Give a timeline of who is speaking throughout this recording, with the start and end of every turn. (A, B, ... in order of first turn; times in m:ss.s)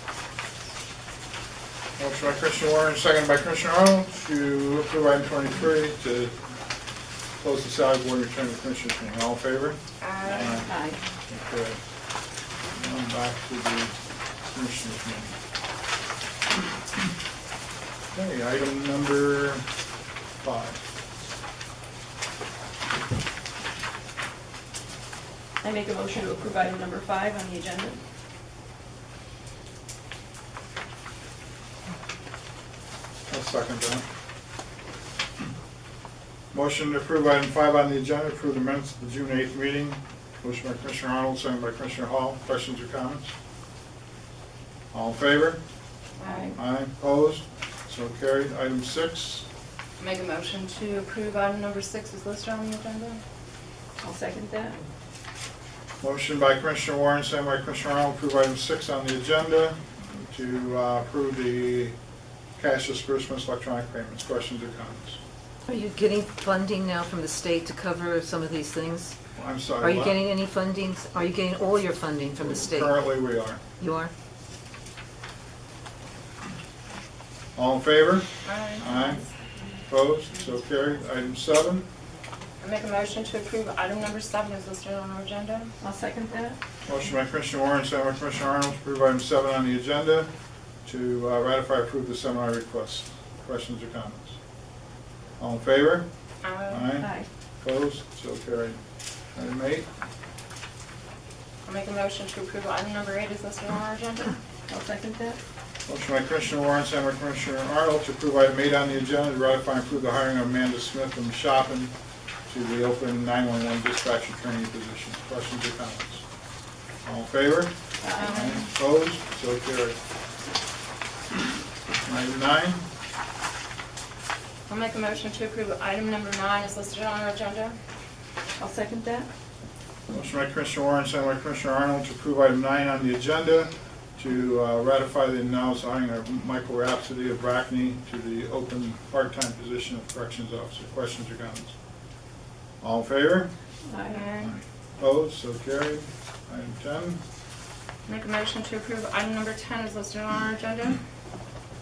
0:02.0-0:06.3 A
0:07.4-0:10.7 A
0:10.0-0:10.6 B
0:10.6-0:11.0 C
0:11.2-0:11.8 A
0:12.7-0:13.9 A
0:14.4-0:15.3 A
0:18.1-0:19.6 A
0:20.4-0:20.8 A
0:25.6-0:28.0 D
0:33.3-0:34.0 A
0:36.5-0:43.3 A
0:44.9-0:45.6 A
0:46.2-0:46.5 B
0:46.5-0:49.4 A
0:50.0-0:53.2 B
0:54.0-0:54.7 D
0:56.0-1:01.9 A
1:02.6-1:05.2 A
1:05.6-1:09.2 C
1:09.4-1:10.2 A
1:09.8-1:13.0 C
1:12.4-1:13.6 A
1:13.8-1:14.1 C
1:17.6-1:19.2 A
1:18.4-1:19.2 B
1:19.8-1:21.9 A
1:22.6-1:25.7 B
1:25.8-1:26.5 D
1:26.0-1:26.5 C
1:26.9-1:30.3 A
1:30.8-1:34.4 A
1:35.4-1:36.1 A
1:36.4-1:36.9 B
1:36.7-1:37.1 A
1:37.6-1:38.8 A
1:39.3-1:39.9 A
1:41.6-1:44.4 B
1:44.7-1:45.3 D
1:45.8-1:51.9 A
1:52.5-1:56.2 A
1:57.0-2:00.0 A
1:58.1-1:58.7 B
2:02.0-2:02.8 A
2:04.7-2:07.8 B
2:08.8-2:09.3 D
2:10.1-2:21.7 A
2:22.8-2:23.5 A
2:23.9-2:24.2 C
2:24.0-2:24.6 B
2:24.4-2:27.2 A
2:28.1-2:31.0 B